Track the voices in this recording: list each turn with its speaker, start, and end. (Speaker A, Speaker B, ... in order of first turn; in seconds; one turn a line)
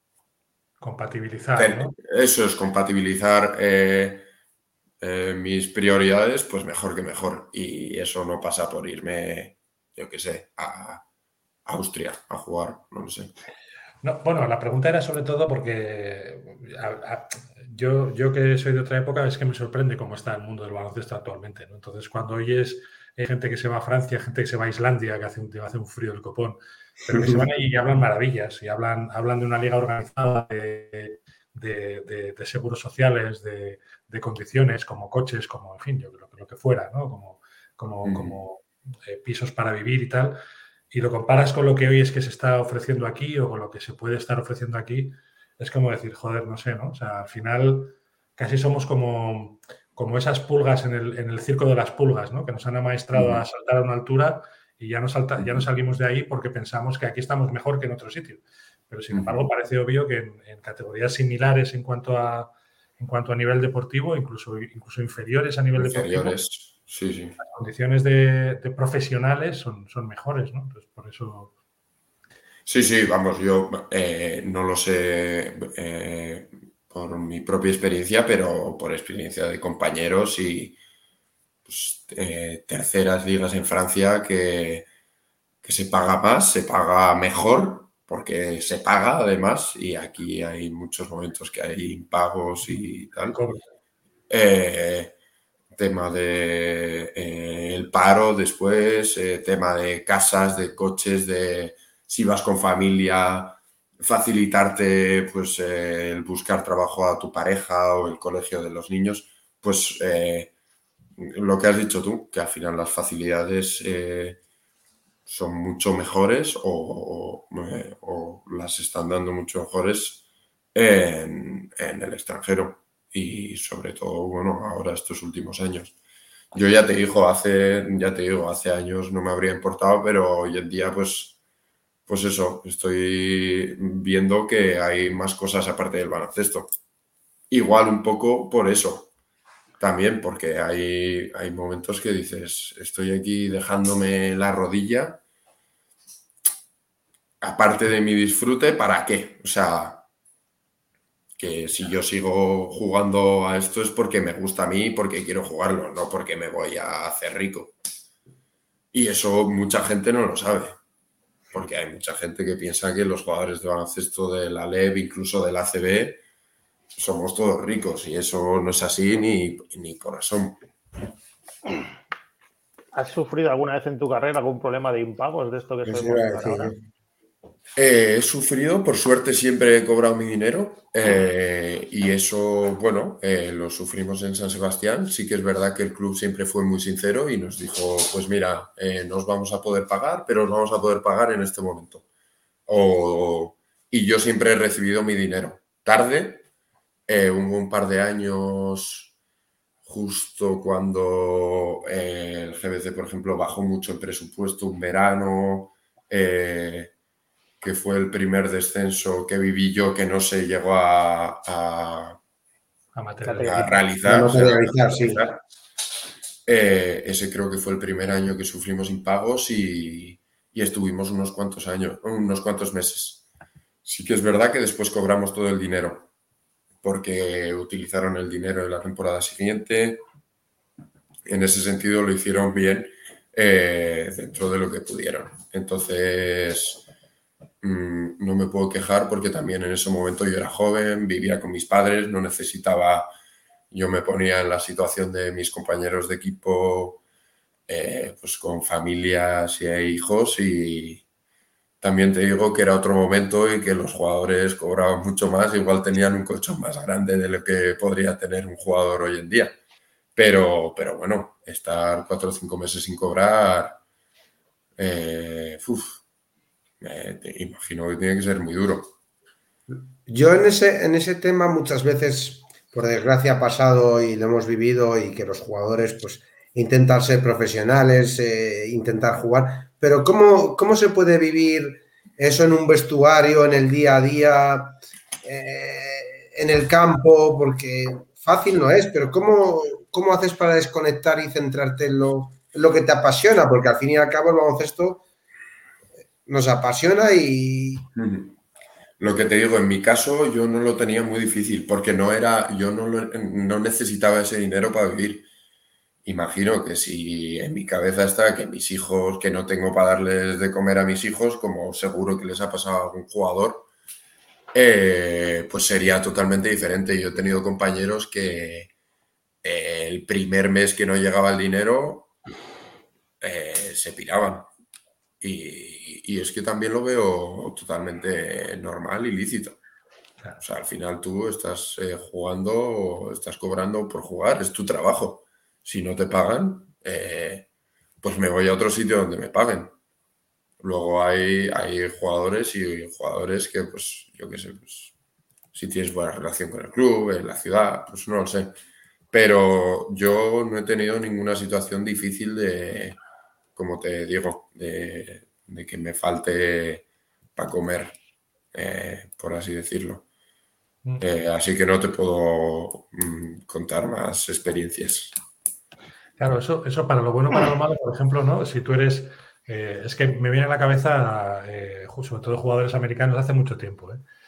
Speaker A: 0.8-2.0
Speaker B: 1.6-4.3
Speaker B: 5.0-11.0
Speaker B: 11.7-13.3
Speaker A: 14.0-40.4
Speaker B: 38.0-38.4
Speaker A: 40.9-66.4
Speaker B: 53.1-53.4
Speaker B: 55.4-55.7
Speaker B: 59.1-59.4
Speaker B: 65.8-67.4
Speaker A: 67.4-71.5
Speaker B: 72.7-80.8
Speaker B: 81.7-84.9
Speaker B: 85.6-93.4
Speaker A: 93.3-93.6
Speaker B: 94.3-95.1
Speaker B: 95.8-110.5
Speaker B: 111.2-114.4
Speaker B: 115.3-120.2
Speaker B: 120.8-125.9
Speaker B: 126.5-131.4
Speaker B: 132.1-136.7
Speaker B: 137.5-139.1
Speaker B: 139.8-145.2
Speaker B: 147.4-150.0
Speaker B: 151.4-157.8
Speaker B: 158.9-160.8
Speaker B: 161.5-166.2
Speaker B: 167.0-170.6
Speaker C: 172.9-176.7
Speaker D: 175.9-176.8
Speaker B: 177.8-192.0
Speaker B: 192.7-196.4
Speaker B: 197.1-199.1
Speaker B: 199.8-206.9
Speaker B: 207.6-212.2
Speaker A: 212.9-213.8
Speaker C: 213.2-213.7
Speaker B: 213.4-215.4
Speaker D: 214.0-215.2
Speaker B: 216.5-223.2
Speaker B: 223.8-226.1
Speaker B: 226.8-230.1
Speaker B: 231.3-236.8
Speaker B: 237.6-243.1
Speaker B: 243.7-247.0
Speaker B: 247.7-251.0
Speaker B: 251.8-259.6
Speaker B: 260.2-263.8
Speaker B: 264.8-266.0
Speaker B: 266.8-268.9
Speaker D: 269.7-295.0
Speaker D: 296.3-297.9
Speaker B: 297.9-298.4
Speaker B: 299.0-305.3
Speaker B: 306.1-313.7
Speaker B: 314.5-318.7
Speaker B: 319.4-322.1
Speaker B: 323.2-324.5
Speaker B: 325.2-329.6
Speaker B: 330.4-337.5
Speaker B: 338.0-339.7
Speaker B: 340.6-344.9
Speaker B: 345.5-348.6
Speaker B: 349.1-353.0
Speaker B: 353.6-356.9
Speaker B: 357.4-358.0
Speaker B: 358.5-360.1
Speaker B: 361.0-365.1
Speaker A: 366.2-374.0